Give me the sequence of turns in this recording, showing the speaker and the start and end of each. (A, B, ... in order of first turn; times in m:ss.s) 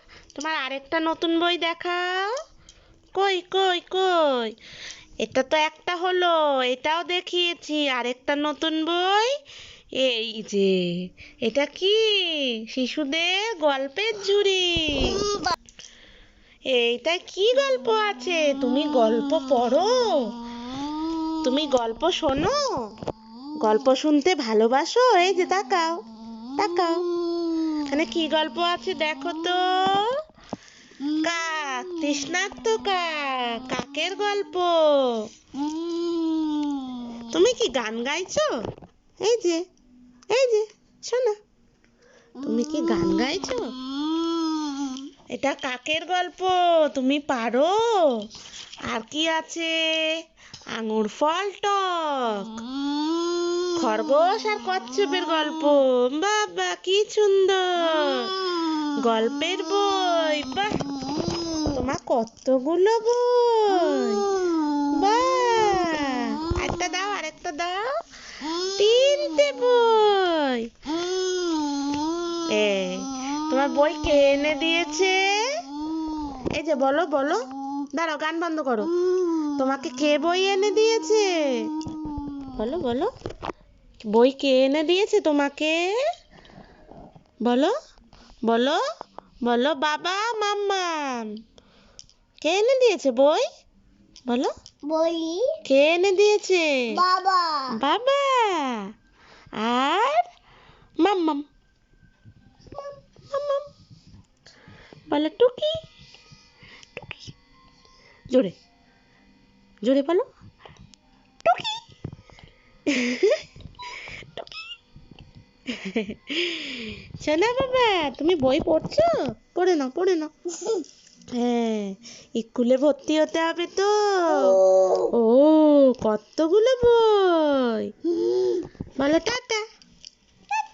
0:00.3-0:02.3 A
0:03.1-0:04.5 A
0:05.2-0:09.3 A
0:10.0-0:15.2 A
0:16.7-0:20.3 A
0:21.4-0:22.6 A
0:23.6-0:26.0 A
0:26.6-0:27.0 A
0:27.9-0:30.1 A
0:31.2-0:35.3 A
0:37.3-0:38.5 A
0:39.2-0:39.6 A
0:40.3-0:41.4 A
0:42.4-0:43.7 A
0:45.3-0:48.2 A
0:48.9-0:50.2 A
0:50.7-0:52.6 A
0:53.8-0:58.4 A
0:59.0-1:00.8 A
1:01.7-1:04.3 A
1:04.9-1:07.9 A
1:08.6-1:10.7 A
1:12.5-1:15.6 A
1:16.5-1:18.9 A
1:19.6-1:21.7 A
1:22.6-1:23.1 A
1:24.1-1:25.8 A
1:27.4-1:27.7 A
1:28.4-1:28.8 A
1:29.4-1:31.3 A
1:32.4-1:33.4 A
1:34.3-1:34.5 A
1:34.8-1:35.6 B
1:35.6-1:37.0 A
1:36.9-1:37.7 B
1:37.7-1:38.8 A
1:39.6-1:40.2 A
1:41.0-1:41.4 A
1:43.3-1:43.7 A
1:45.1-1:45.8 A
1:47.0-1:47.3 A
1:48.3-1:48.6 A
1:49.8-1:50.2 A
1:51.4-1:51.8 A
1:52.9-1:53.4 A
1:54.3-1:54.6 A
1:55.7-2:00.3 A
2:01.3-2:07.9 A
2:04.7-2:05.0 B
2:09.0-2:09.6 A